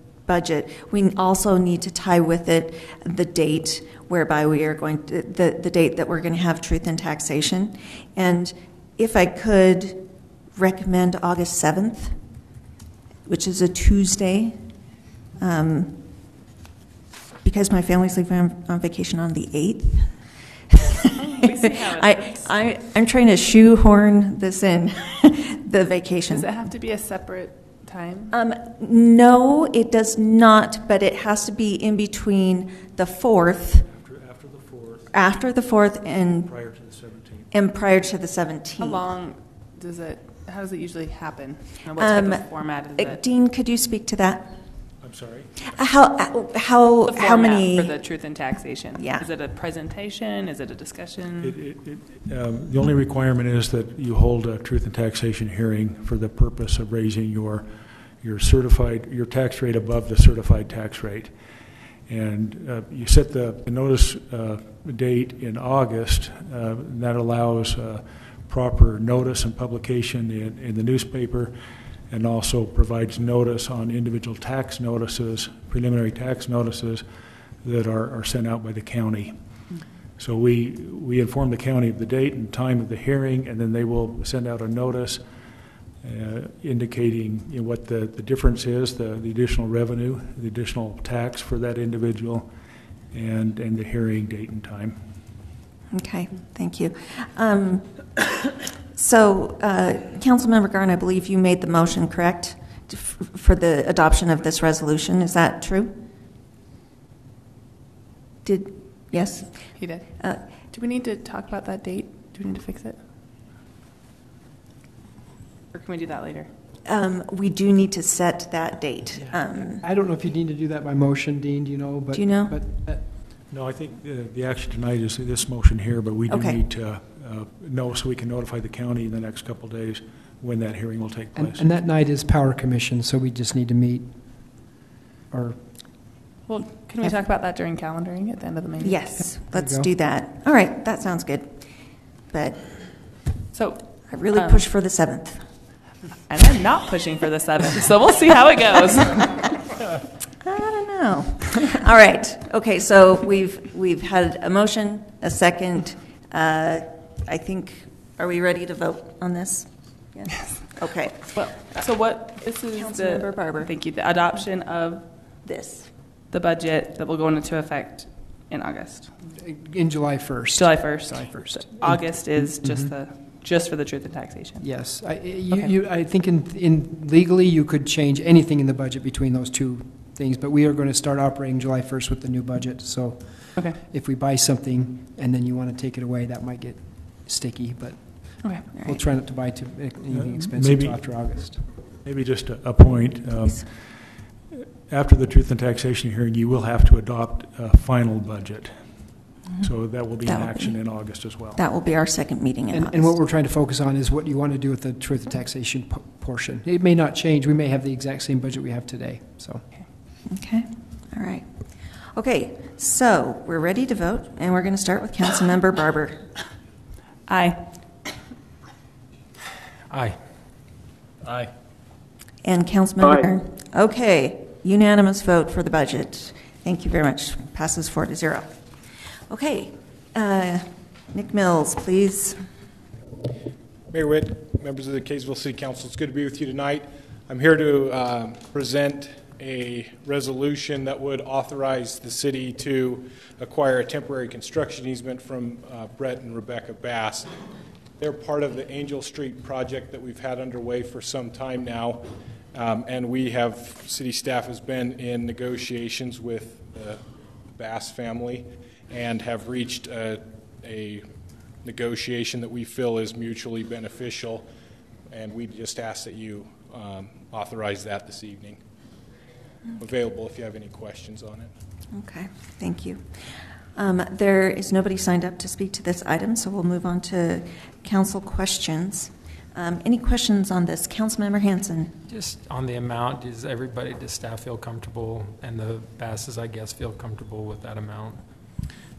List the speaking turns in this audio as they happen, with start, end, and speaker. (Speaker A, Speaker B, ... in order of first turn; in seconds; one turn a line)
Speaker A: 0.3-10.0
Speaker A: 10.6-12.1
Speaker A: 13.2-14.6
Speaker A: 15.4-16.0
Speaker A: 17.4-20.1
Speaker A: 20.7-26.5
Speaker B: 21.1-22.5
Speaker B: 26.3-28.3
Speaker A: 28.3-33.9
Speaker C: 33.9-35.1
Speaker A: 35.1-36.5
Speaker C: 36.5-37.5
Speaker A: 37.5-39.0
Speaker B: 38.8-43.2
Speaker A: 42.0-42.4
Speaker A: 43.0-44.5
Speaker C: 45.0-45.5
Speaker A: 45.7-48.0
Speaker B: 47.0-51.5
Speaker A: 49.0-49.3
Speaker C: 51.4-57.7
Speaker C: 58.2-61.3
Speaker C: 62.1-71.5
Speaker C: 72.1-77.0
Speaker C: 77.6-79.3
Speaker C: 80.2-85.2
Speaker C: 86.0-92.5
Speaker C: 93.1-95.0
Speaker A: 95.9-97.9
Speaker A: 98.9-106.0
Speaker A: 108.4-110.4
Speaker B: 109.8-110.1
Speaker B: 110.7-113.0
Speaker B: 115.7-116.5
Speaker A: 116.8-119.8
Speaker D: 119.2-123.0
Speaker A: 122.1-122.6
Speaker C: 123.5-131.7
Speaker A: 126.3-126.6
Speaker D: 131.3-134.6
Speaker D: 135.3-135.6
Speaker B: 136.5-139.1
Speaker A: 138.8-141.6
Speaker D: 139.5-139.9
Speaker A: 142.3-142.6
Speaker B: 143.5-144.7
Speaker A: 144.1-145.4
Speaker B: 146.3-149.5
Speaker A: 150.4-161.8
Speaker B: 161.3-165.1
Speaker A: 162.7-163.7
Speaker A: 165.4-165.9
Speaker B: 166.3-169.1
Speaker D: 169.3-172.9
Speaker B: 170.6-174.7
Speaker D: 174.6-191.7
Speaker B: 188.4-188.7
Speaker C: 190.1-191.0
Speaker C: 192.0-193.7
Speaker C: 194.5-198.8
Speaker C: 199.6-201.6
Speaker A: 200.2-200.7
Speaker A: 201.6-203.1
Speaker D: 202.7-209.6
Speaker A: 210.3-211.4
Speaker A: 212.1-216.2
Speaker B: 217.3-217.6
Speaker E: 219.9-220.2
Speaker A: 222.4-228.5
Speaker A: 229.3-232.4
Speaker F: 233.9-247.3
Speaker F: 248.0-257.0
Speaker F: 257.6-261.0
Speaker F: 261.6-264.5
Speaker F: 265.1-268.6
Speaker F: 269.8-271.5
Speaker A: 271.9-273.0
Speaker A: 273.8-281.9
Speaker E: 282.1-288.2